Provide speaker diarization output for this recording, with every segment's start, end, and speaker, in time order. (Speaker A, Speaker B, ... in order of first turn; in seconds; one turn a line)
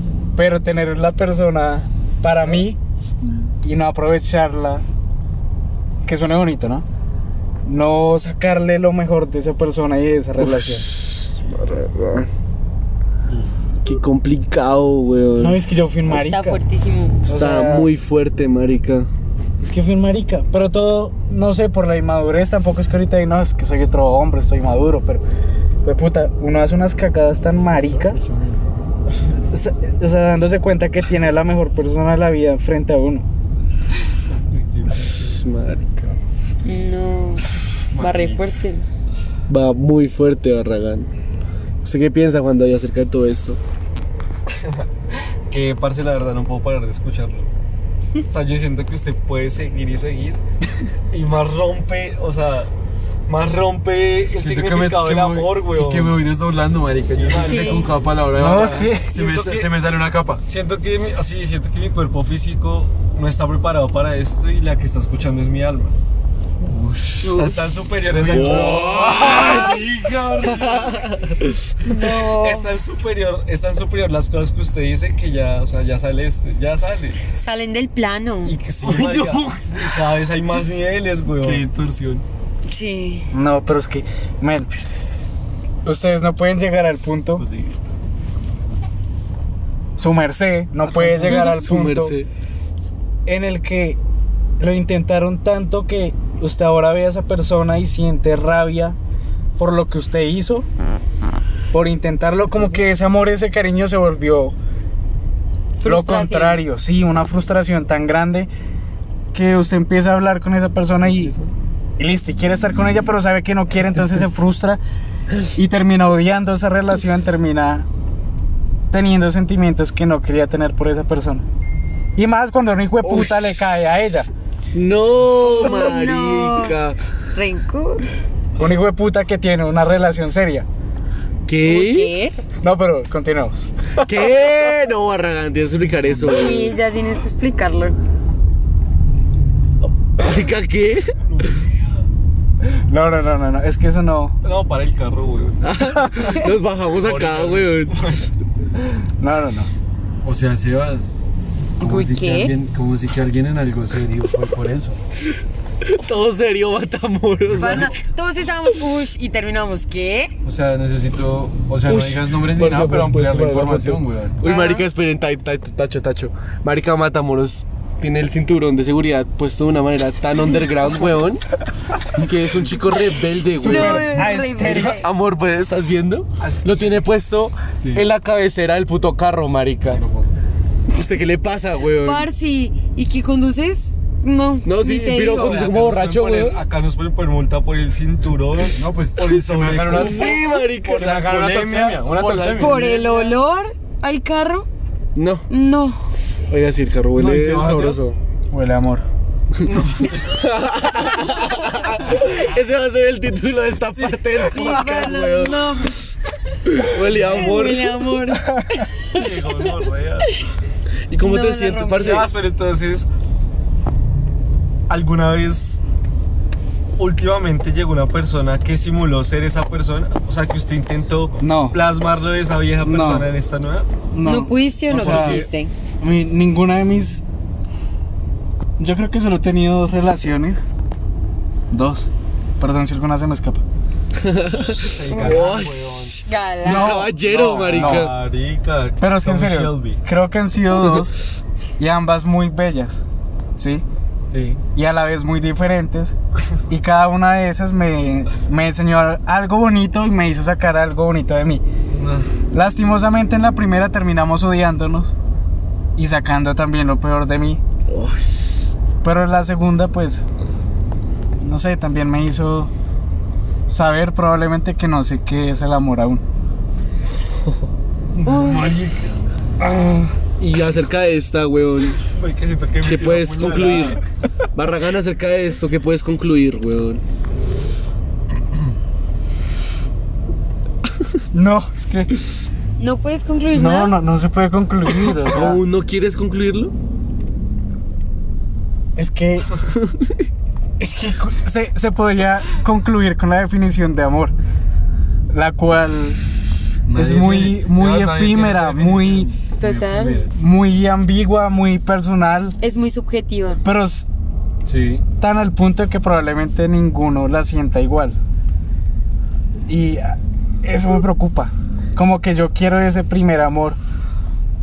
Speaker A: 0.3-2.8
Speaker A: 3.6-4.8
Speaker A: 6.0-6.8
Speaker A: 7.6-10.9
Speaker B: 10.4-12.3
Speaker B: 13.8-15.6
Speaker A: 15.4-16.6
Speaker C: 16.1-17.2
Speaker A: 17.3-17.9
Speaker B: 17.3-19.1
Speaker A: 19.6-25.2
Speaker A: 25.8-28.2
Speaker D: 27.6-28.9
Speaker A: 29.5-33.2
Speaker E: 34.3-35.4
Speaker B: 35.1-36.2
Speaker C: 36.6-38.8
Speaker D: 37.9-38.4
Speaker B: 39.5-41.1
Speaker B: 41.8-43.6
Speaker E: 44.6-44.9
Speaker E: 45.5-47.5
Speaker E: 48.3-50.4
Speaker E: 51.1-52.7
Speaker E: 53.3-56.2
Speaker D: 54.3-60.4
Speaker E: 57.0-59.7
Speaker C: 57.3-57.9
Speaker A: 58.3-59.1
Speaker E: 60.5-65.9
Speaker D: 66.6-67.4
Speaker B: 67.2-67.6
Speaker E: 67.3-71.2
Speaker D: 68.0-71.2
Speaker B: 68.2-69.9
Speaker B: 70.6-71.0
Speaker C: 71.8-72.7
Speaker E: 71.8-77.2
Speaker C: 77.3-78.5
Speaker E: 78.4-81.7
Speaker B: 78.9-79.2
Speaker D: 78.9-79.3
Speaker D: 81.4-81.7
Speaker C: 82.7-83.3
Speaker A: 83.3-84.8
Speaker A: 85.8-87.5
Speaker B: 87.4-87.7
Speaker A: 90.0-92.2
Speaker B: 90.9-92.3
Speaker A: 93.2-94.0
Speaker A: 94.6-99.0
Speaker A: 99.6-100.7
Speaker A: 101.7-104.5
Speaker C: 105.8-106.6
Speaker A: 105.8-108.5
Speaker A: 109.3-111.3
Speaker A: 112.0-114.8
Speaker A: 115.5-117.9
Speaker A: 118.9-121.4
Speaker A: 122.2-124.3
Speaker B: 123.0-123.3
Speaker B: 124.7-127.0
Speaker C: 125.4-126.8
Speaker C: 127.3-128.1
Speaker A: 128.6-130.7
Speaker B: 131.5-132.1
Speaker C: 131.6-132.4
Speaker A: 132.6-133.7
Speaker B: 134.0-136.8
Speaker C: 136.2-137.9
Speaker B: 140.2-141.2
Speaker E: 141.2-142.1
Speaker A: 142.7-144.4
Speaker E: 144.4-145.6
Speaker B: 145.6-147.9
Speaker D: 147.0-147.8
Speaker E: 147.9-148.3
Speaker A: 149.2-149.7
Speaker D: 150.2-151.1
Speaker C: 151.8-152.5
Speaker D: 151.8-155.0
Speaker B: 155.8-157.9
Speaker C: 157.5-160.3
Speaker D: 157.5-157.9
Speaker D: 160.4-164.4
Speaker A: 161.9-163.0
Speaker B: 162.6-171.4
Speaker C: 164.4-164.9
Speaker B: 172.1-180.0
Speaker C: 173.6-175.1
Speaker A: 173.6-175.0
Speaker E: 176.4-177.0
Speaker D: 177.8-178.1
Speaker D: 179.9-180.3
Speaker B: 180.9-182.3
Speaker C: 182.0-185.7
Speaker B: 184.6-186.6
Speaker E: 185.3-193.4
Speaker D: 188.7-192.8
Speaker B: 189.9-191.1
Speaker C: 192.6-194.7
Speaker B: 195.1-195.5
Speaker C: 195.5-196.0
Speaker B: 196.5-198.2
Speaker D: 197.1-198.0
Speaker A: 198.5-199.0
Speaker E: 199.7-200.4
Speaker B: 200.3-205.6
Speaker C: 204.4-206.0
Speaker B: 206.7-208.2
Speaker E: 207.1-207.4
Speaker C: 207.1-209.7
Speaker E: 209.1-210.3
Speaker B: 211.1-212.3
Speaker C: 211.2-212.2
Speaker E: 211.9-213.1
Speaker E: 214.9-215.8
Speaker E: 217.0-223.9
Speaker A: 221.4-221.8
Speaker A: 222.8-223.3
Speaker A: 224.1-225.5
Speaker C: 224.2-225.7
Speaker E: 224.9-225.5
Speaker A: 226.0-227.2
Speaker A: 228.8-230.6
Speaker A: 231.7-233.6
Speaker B: 234.1-238.2
Speaker E: 234.7-236.2
Speaker C: 236.2-237.1
Speaker A: 236.6-238.1
Speaker E: 237.2-240.0
Speaker A: 239.0-241.2
Speaker A: 241.8-243.0
Speaker A: 243.6-243.8
Speaker D: 244.2-244.6
Speaker A: 244.7-246.1
Speaker A: 246.7-251.6
Speaker D: 251.9-252.3
Speaker A: 252.5-255.1
Speaker A: 255.9-257.6
Speaker B: 257.9-258.4
Speaker A: 259.0-260.2
Speaker A: 261.4-262.7
Speaker A: 263.7-266.2
Speaker E: 268.2-269.1
Speaker C: 268.2-268.8
Speaker A: 269.6-270.1
Speaker B: 270.4-272.0
Speaker E: 272.1-274.0
Speaker B: 272.8-274.0
Speaker B: 274.5-277.0
Speaker A: 281.3-282.1
Speaker C: 282.8-284.0
Speaker A: 283.5-285.6
Speaker B: 285.1-286.7
Speaker A: 288.9-289.5
Speaker B: 289.8-290.1
Speaker A: 290.8-294.3
Speaker A: 295.3-296.2
Speaker D: 296.9-300.3
Speaker A: 296.9-299.3
Speaker C: 299.6-300.3
Speaker A: 300.3-302.6
Speaker C: 302.6-303.6
Speaker A: 303.6-304.1
Speaker D: 304.6-305.0
Speaker A: 305.2-308.2
Speaker A: 309.7-313.8